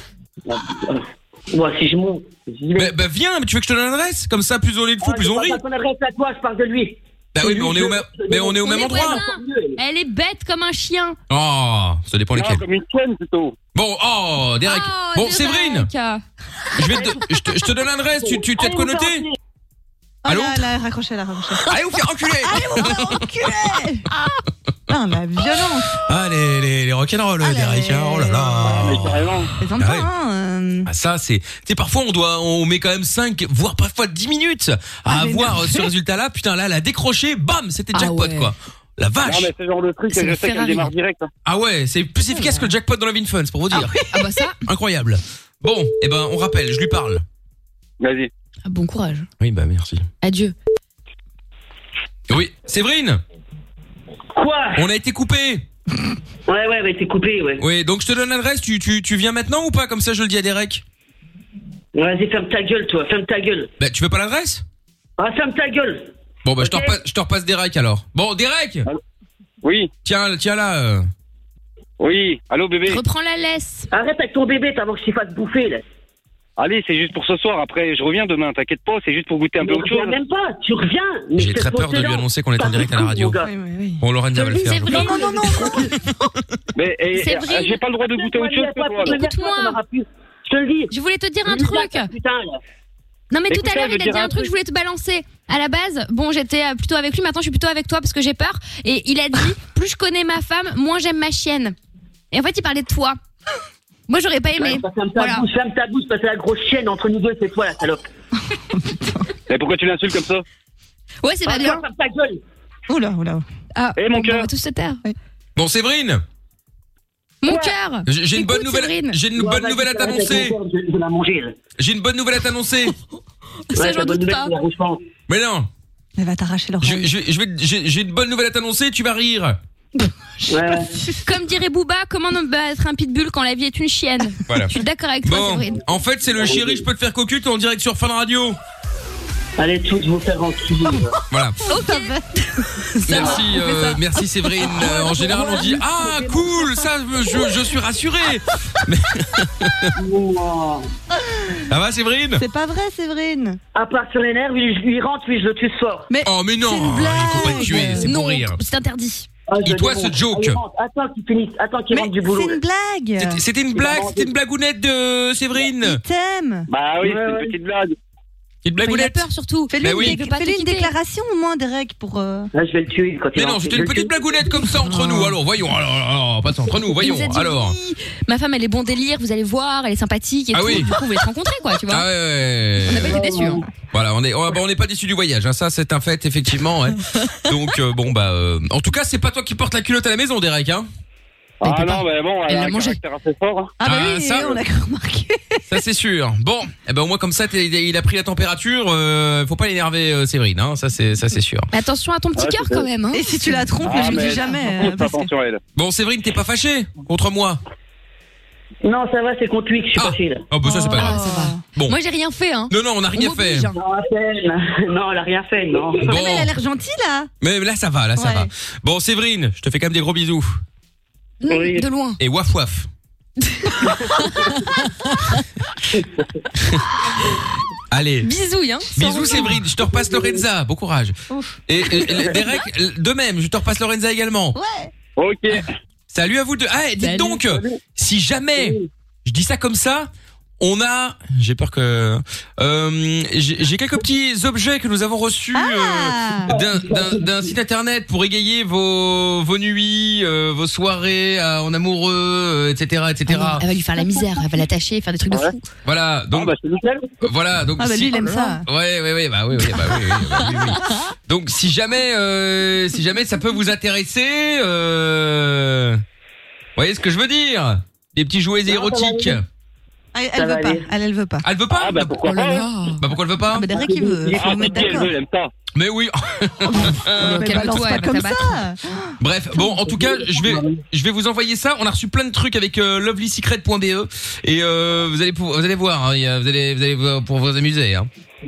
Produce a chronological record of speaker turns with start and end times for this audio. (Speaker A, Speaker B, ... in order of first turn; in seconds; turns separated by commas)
Speaker A: 0.5-2.9, Speaker B: 2.8-5.6, Speaker A: 5.0-9.8, Speaker B: 7.3-9.2, Speaker C: 8.6-11.2, Speaker B: 11.3-12.6, Speaker D: 12.3-13.6, Speaker B: 13.7-15.9, Speaker C: 14.6-16.2, Speaker B: 16.8-19.2, Speaker A: 18.2-19.3, Speaker E: 20.2-21.8, Speaker B: 20.2-20.7, Speaker B: 21.6-23.2, Speaker E: 22.4-24.1, Speaker E: 24.9-26.1, Speaker B: 26.0-30.1, Speaker E: 27.4-28.8, Speaker D: 28.6-29.5, Speaker E: 29.6-30.9, Speaker B: 30.9-39.5, Speaker E: 35.1-35.9, Speaker C: 37.9-38.5, Speaker D: 39.2-41.3, Speaker C: 40.1-40.9, Speaker B: 41.4-44.1, Speaker C: 42.3-42.6, Speaker C: 43.7-44.6, Speaker E: 44.0-44.2, Speaker B: 44.6-47.2, Speaker D: 48.0-48.3, Speaker C: 48.6-49.3, Speaker B: 49.4-50.1, Speaker C: 50.2-50.5, Speaker B: 52.3-53.2, Speaker A: 54.3-54.8, Speaker B: 54.8-55.6, Speaker A: 56.5-57.6, Speaker B: 57.6-60.8, Speaker A: 61.9-63.7, Speaker B: 63.8-64.6, Speaker A: 65.2-66.1, Speaker B: 66.4-68.9, Speaker D: 69.6-69.9, Speaker B: 70.0-71.1, Speaker D: 72.0-73.0, Speaker C: 72.9-73.9, Speaker A: 73.9-75.8, Speaker D: 76.6-80.2, Speaker A: 79.6-83.5, Speaker B: 81.4-83.4, Speaker E: 83.4-84.0, Speaker B: 84.0-85.1, Speaker C: 84.4-85.9, Speaker E: 84.9-86.1, Speaker A: 84.9-85.8, Speaker D: 86.7-89.2, Speaker C: 87.2-87.8, Speaker A: 88.0-90.9, Speaker C: 89.0-89.8, Speaker C: 90.9-92.1, Speaker A: 91.5-92.6, Speaker C: 93.3-101.8, Speaker D: 93.5-94.5, Speaker C: 102.3-103.2, Speaker C: 104.1-105.5, Speaker A: 104.5-108.0, Speaker E: 108.8-109.0, Speaker D: 109.5-110.4, Speaker C: 111.2-111.8, Speaker A: 111.5-112.4, Speaker E: 112.9-113.4, Speaker C: 113.7-115.0, Speaker D: 114.0-114.5, Speaker B: 115.5-116.2, Speaker C: 117.4-119.2, Speaker B: 118.0-120.5, Speaker A: 119.3-121.5, Speaker B: 121.8-122.9, Speaker C: 123.7-124.5, Speaker A: 123.7-125.0, Speaker B: 125.3-125.7, Speaker E: 126.2-127.1, Speaker B: 126.8-129.6, Speaker A: 130.5-130.9, Speaker C: 131.2-135.8, Speaker B: 134.5-138.6, Speaker A: 136.4-136.8, Speaker A: 139.6-141.1, Speaker B: 141.3-141.6, Speaker C: 141.7-142.1, Speaker E: 141.7-145.8, Speaker B: 143.1-149.9, Speaker A: 145.2-146.4, Speaker A: 149.9-150.9, Speaker B: 151.7-152.4, Speaker E: 152.3-153.6, Speaker A: 153.7-156.1, Speaker E: 156.1-158.1, Speaker B: 156.2-158.6, Speaker C: 157.5-159.3, Speaker A: 159.5-162.6, Speaker B: 159.6-160.6, Speaker E: 161.9-163.4, Speaker B: 163.2-166.0, Speaker A: 163.7-164.3, Speaker E: 165.7-166.7, Speaker D: 166.7-167.9, Speaker A: 167.0-167.5, Speaker B: 168.6-169.2, Speaker C: 168.8-170.9, Speaker E: 169.7-172.5, Speaker B: 169.8-170.2, Speaker A: 172.5-174.2, Speaker B: 173.3-177.8, Speaker C: 174.8-175.3, Speaker C: 176.9-182.1, Speaker B: 180.5-180.9, Speaker B: 181.9-183.2, Speaker C: 182.8-183.6, Speaker A: 183.2-183.5, Speaker B: 183.9-190.9, Speaker D: 191.6-193.7, Speaker C: 191.6-193.0, Speaker E: 193.8-195.8, Speaker B: 193.8-194.6, Speaker B: 195.7-201.7, Speaker C: 201.7-204.4, Speaker D: 202.3-202.9, Speaker E: 203.1-205.3, Speaker D: 203.8-205.6, Speaker B: 205.7-207.6, Speaker A: 208.8-210.5, Speaker B: 209.9-211.2, Speaker E: 210.6-211.6, Speaker C: 210.9-213.7, Speaker B: 212.7-213.7, Speaker A: 213.7-216.1, Speaker E: 216.0-217.3, Speaker B: 216.0-216.5, Speaker B: 217.4-220.6, Speaker E: 218.2-218.5, Speaker C: 221.4-222.2, Speaker A: 221.5-221.8, Speaker B: 222.2-222.9, Speaker C: 223.6-224.6, Speaker B: 227.9-228.3, Speaker C: 228.2-229.6, Speaker B: 228.9-231.2, Speaker E: 231.3-231.6, Speaker B: 231.7-234.6, Speaker E: 234.5-234.9, Speaker D: 235.2-235.7, Speaker B: 236.1-253.7, Speaker C: 237.0-237.4, Speaker D: 237.5-237.8, Speaker E: 245.5-246.5, Speaker A: 246.7-247.2, Speaker C: 253.3-255.7, Speaker B: 255.8-256.5, Speaker D: 256.3-257.3, Speaker B: 257.2-266.0, Speaker E: 257.8-258.6, Speaker B: 266.8-269.4, Speaker A: 268.7-269.4, Speaker E: 270.1-271.4, Speaker A: 270.3-270.9, Speaker B: 271.4-272.2, Speaker D: 271.7-272.7, Speaker C: 272.2-273.0, Speaker B: 273.0-273.8, Speaker E: 273.5-275.1, Speaker A: 273.7-275.0, Speaker D: 274.3-275.5, Speaker B: 275.7-277.8, Speaker E: 276.7-279.2, Speaker C: 277.1-278.6, Speaker B: 279.2-288.1, Speaker A: 280.0-280.8